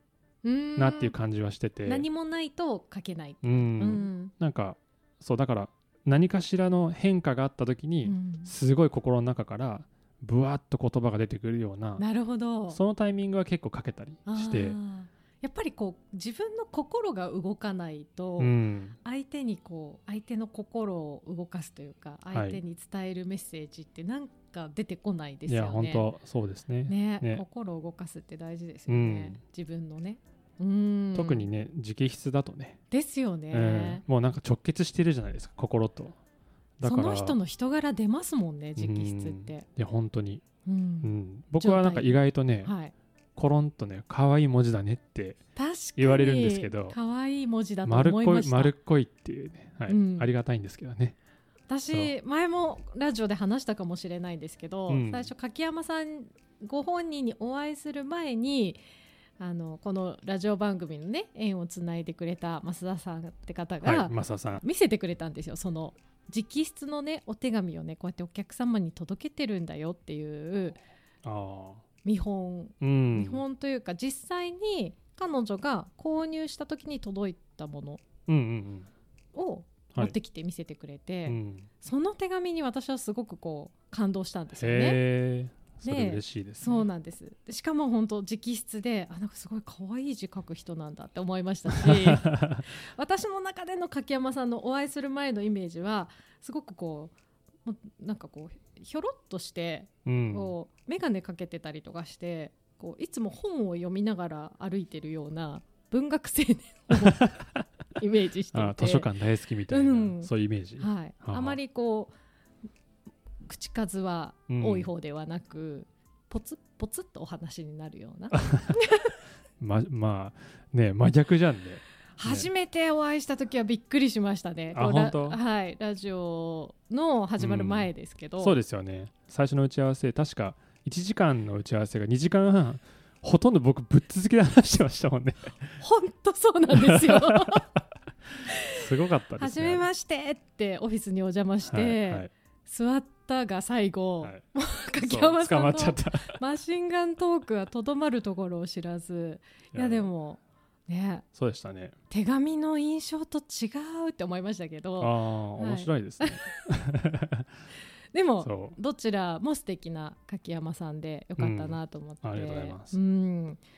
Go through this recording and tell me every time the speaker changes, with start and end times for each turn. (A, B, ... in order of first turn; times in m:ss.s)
0:00.4-0:01.1 A
0:00.8-0:02.0 B
0:01.8-0:04.3 A
0:03.4-0:12.0 B
0:08.0-0:08.5 A
0:12.0-0:12.8 A
0:12.7-0:14.8 B
0:14.3-0:26.1 A
0:18.4-0:19.0 B
0:22.3-0:22.6 B
0:25.5-0:27.4 B
0:26.9-0:31.5 A
0:28.9-0:29.4 B
0:31.1-0:32.8 B
0:32.9-0:34.0 A
0:33.5-0:36.2 B
0:36.8-0:37.4 B
0:36.8-0:39.6 A
0:38.8-0:40.4 B
0:40.6-0:42.9 A
0:41.0-0:42.7 B
0:43.4-0:45.4 B
0:45.6-0:48.7 A
0:46.0-0:47.0 B
0:47.8-0:51.2 B
0:49.9-0:50.3 A
0:51.7-0:58.8 A
0:54.9-0:55.3 B
0:59.4-1:10.8 A
1:03.8-1:04.6 B
1:11.2-1:11.8 B
1:12.0-1:18.0 A
1:12.8-1:13.4 B
1:18.3-1:18.9 B
1:19.3-1:25.0 A
1:21.2-1:21.7 B
1:24.6-1:26.9 B
1:25.8-1:47.4 A
1:31.7-1:32.6 B
1:40.0-1:40.5 B
1:47.0-1:47.6 B
1:48.0-1:49.1 A
1:48.5-1:51.6 B
1:49.7-1:52.1 A
1:53.4-1:59.2 A
1:54.5-1:54.9 B
1:58.3-1:58.8 B
1:59.6-2:02.5 B
2:02.2-2:08.6 A
2:04.7-2:05.4 B
2:07.4-2:15.6 B
2:15.8-2:17.7 A
2:16.8-2:17.6 B
2:18.5-2:18.8 A
2:18.6-2:19.8 B
2:19.4-2:31.2 A
2:21.6-2:22.3 B
2:25.0-2:26.4 B
2:29.7-2:30.1 B
2:31.3-2:31.9 B
2:32.1-2:36.4 A
2:35.0-2:37.5 B
2:38.1-2:43.6 A
2:38.4-2:38.8 B
2:41.4-2:43.0 B